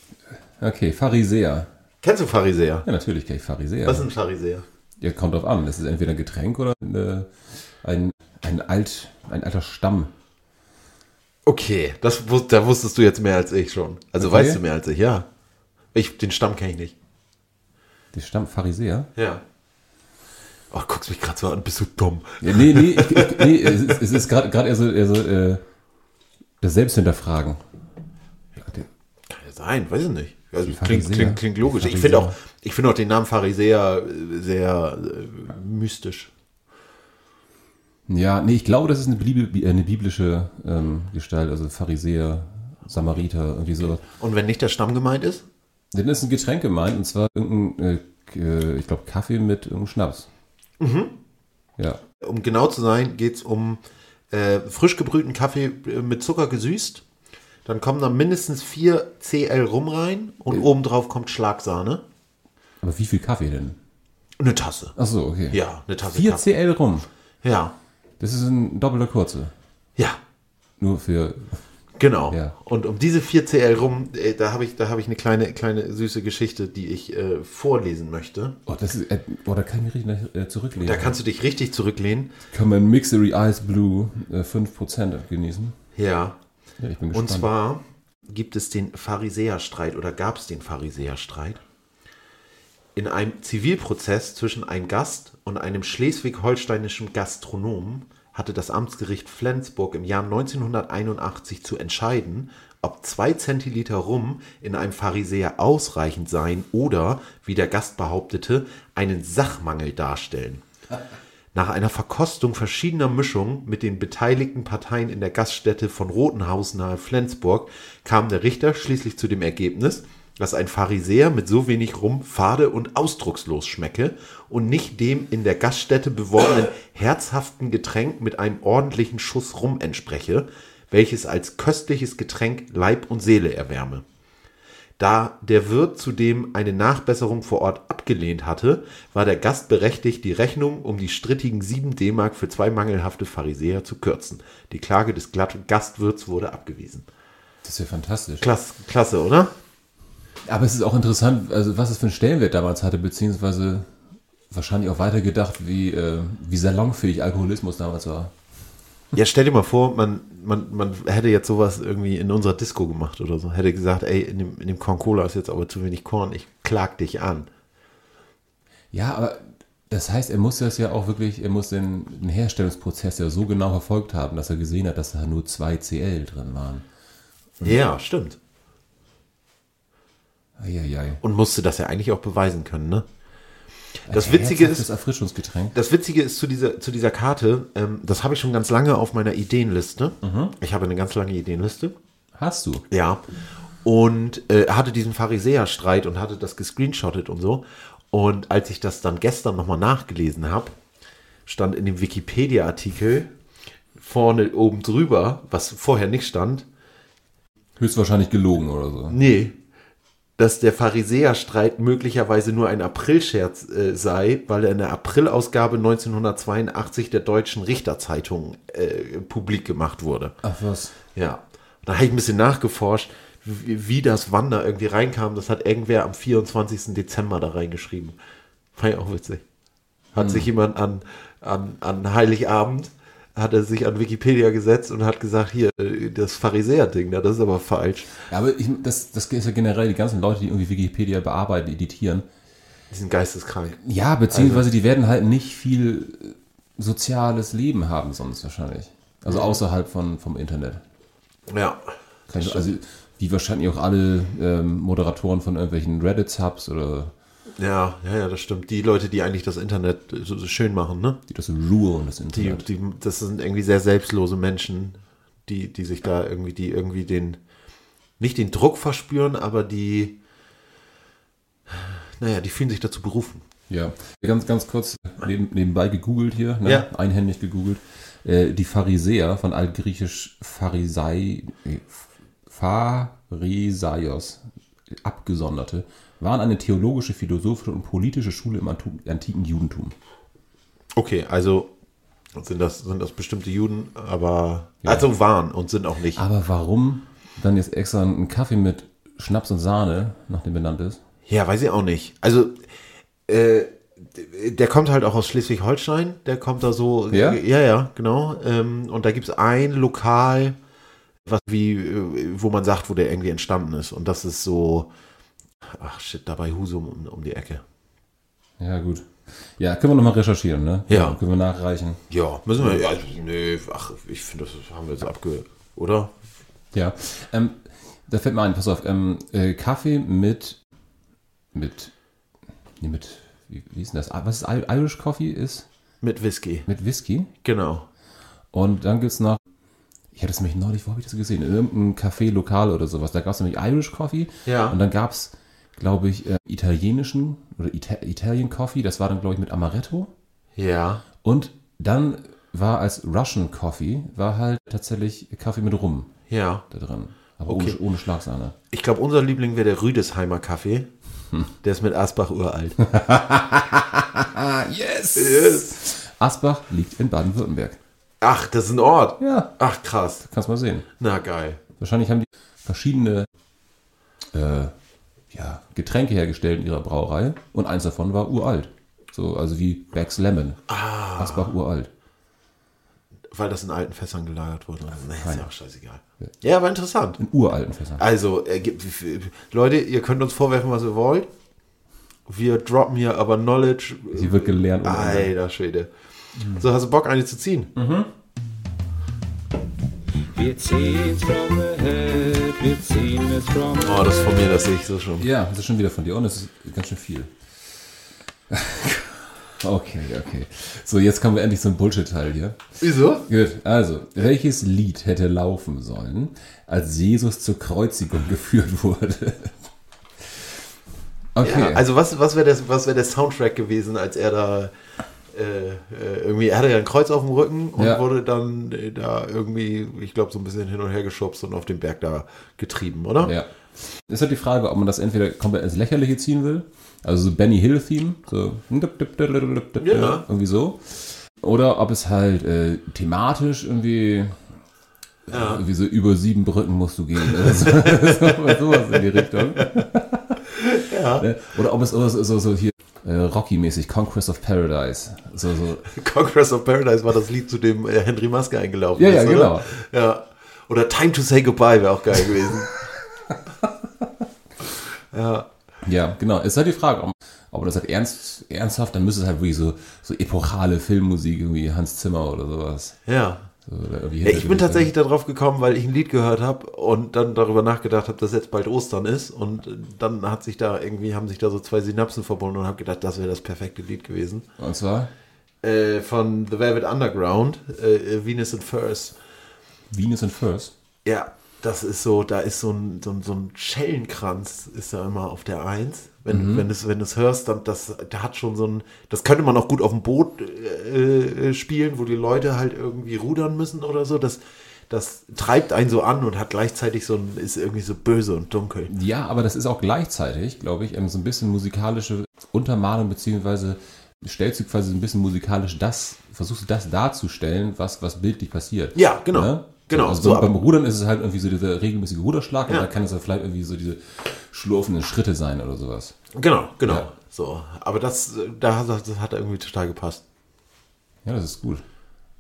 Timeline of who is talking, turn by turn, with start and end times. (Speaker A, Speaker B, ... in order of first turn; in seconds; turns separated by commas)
Speaker A: 0.6-1.7, Speaker B: 2.0-2.9, Speaker A: 2.9-4.1, Speaker B: 3.9-4.6, Speaker A: 5.0-10.1, Speaker B: 11.5-15.2, Speaker A: 14.2-14.6, Speaker B: 15.9-16.9, Speaker A: 18.1-19.1, Speaker B: 19.1-19.4, Speaker B: 20.7-24.0, Speaker A: 22.4-25.6, Speaker A: 26.6-27.6, Speaker A: 28.6-28.9, Speaker B: 29.3-36.3, Speaker A: 30.6-32.4, Speaker A: 38.1-44.0, Speaker B: 44.0-45.4, Speaker A: 45.9-50.3, Speaker B: 50.8-51.1, Speaker B: 52.2-53.8, Speaker B: 54.3-57.0, Speaker B: 57.6-62.0, Speaker A: 62.8-63.8, Speaker B: 64.4-65.0, Speaker A: 65.0-67.1, Speaker B: 65.5-66.5, Speaker B: 67.4-67.7, Speaker A: 68.2-69.5, Speaker A: 70.8-71.6, Speaker B: 72.0-78.5, Speaker A: 78.7-81.2, Speaker B: 80.8-82.3, Speaker A: 82.5-85.8, Speaker B: 86.0-86.4, Speaker A: 86.8-87.5, Speaker B: 87.1-91.6, Speaker B: 93.0-110.6, Speaker B: 111.5-134.0, Speaker B: 135.0-147.1, Speaker A: 147.6-148.5, Speaker B: 148.4-149.5, Speaker A: 150.5-153.9, Speaker A: 154.5-158.3, Speaker B: 159.1-167.5, Speaker A: 168.9-176.8, Speaker B: 177.6-178.4, Speaker A: 180.6-181.2, Speaker B: 181.2-183.0, Speaker A: 184.1-185.8, Speaker B: 184.1-184.8, Speaker B: 185.7-191.9, Speaker A: 190.2-190.5, Speaker A: 192.4-192.8, Speaker B: 192.9-193.2, Speaker B: 193.8-200.7, Speaker B: 201.5-203.3, Speaker B: 204.0-206.7, Speaker A: 207.8-209.2, Speaker B: 209.1-209.6, Speaker B: 210.4-220.3, Speaker A: 220.4-220.9, Speaker B: 221.2-228.2, Speaker B: 228.8-229.4, Speaker B: 230.1-238.2, Speaker A: 230.2-230.5, Speaker A: 238.3-242.2, Speaker B: 242.9-244.7, Speaker A: 243.8-250.8, Speaker B: 249.3-249.6, Speaker B: 251.5-251.8, Speaker A: 252.3-257.1, Speaker B: 252.3-252.7, Speaker B: 257.6-261.2, Speaker A: 261.3-262.7, Speaker B: 262.3-267.4, Speaker B: 268.2-270.2, Speaker B: 271.7-273.4, Speaker A: 273.7-289.9, Speaker B: 290.9-291.7, Speaker B: 292.4-296.2, Speaker A: 296.1-301.0, Speaker B: 301.3-302.6, Speaker B: 303.3-310.6, Speaker A: 307.1-307.4, Speaker B: 311.2-314.9, Speaker B: 315.7-317.6, Speaker A: 318.6-322.0, Speaker B: 320.9-321.2, Speaker B: 322.1-326.2, Speaker A: 326.7-330.6, Speaker A: 331.5-331.9, Speaker A: 332.8-335.7, Speaker B: 336.0-336.7, Speaker A: 336.7-337.3, Speaker B: 337.4-337.9, Speaker A: 338.5-339.4, Speaker A: 340.1-350.1, Speaker B: 344.5-344.8, Speaker B: 350.6-351.0, Speaker A: 351.2-356.1, Speaker B: 356.3-356.6, Speaker A: 356.7-358.6, Speaker B: 357.5-357.8, Speaker B: 358.7-360.9, Speaker B: 361.6-362.8, Speaker A: 362.8-367.8, Speaker B: 365.2-365.7, Speaker B: 368.2-370.2, Speaker A: 369.2-369.5, Speaker A: 370.2-370.9, Speaker B: 371.0-371.6, Speaker A: 371.8-373.3, Speaker A: 374.3-374.7, Speaker A: 375.3-380.6, Speaker B: 380.7-381.5, Speaker A: 381.2-381.9, Speaker B: 383.3-387.2, Speaker A: 385.2-385.5, Speaker A: 387.2-388.0, Speaker B: 388.0-391.3, Speaker B: 392.3-395.9, Speaker A: 394.1-395.3, Speaker A: 396.4-396.6, Speaker B: 396.5-397.7, Speaker A: 397.8-398.1, Speaker C: 400.3-404.2, Speaker B: 403.8-405.3, Speaker A: 405.2-407.3, Speaker A: 408.5-419.6, Speaker B: 412.8-413.2, Speaker A: 421.3-421.8, Speaker B: 421.4-424.7, Speaker B: 425.3-433.3, Speaker A: 427.8-428.0, Speaker A: 433.2-444.4, Speaker B: 439.8-440.2, Speaker A: 445.3-455.9, Speaker B: 445.3-445.6, Speaker B: 447.4-449.7, Speaker B: 450.5-451.3, Speaker B: 455.9-462.8, Speaker A: 459.0-459.7, Speaker B: 465.1-465.5, Speaker A: 465.8-473.0, Speaker B: 473.1-473.5, Speaker A: 473.6-474.9, Speaker B: 474.2-484.5, Speaker A: 484.6-485.1, Speaker B: 485.6-489.2, Speaker A: 489.9-490.7, Speaker B: 491.0-508.9, Speaker A: 496.3-496.7, Speaker A: 508.9-526.2, Speaker B: 519.0-520.5, Speaker B: 526.3-530.2, Speaker A: 531.2-531.8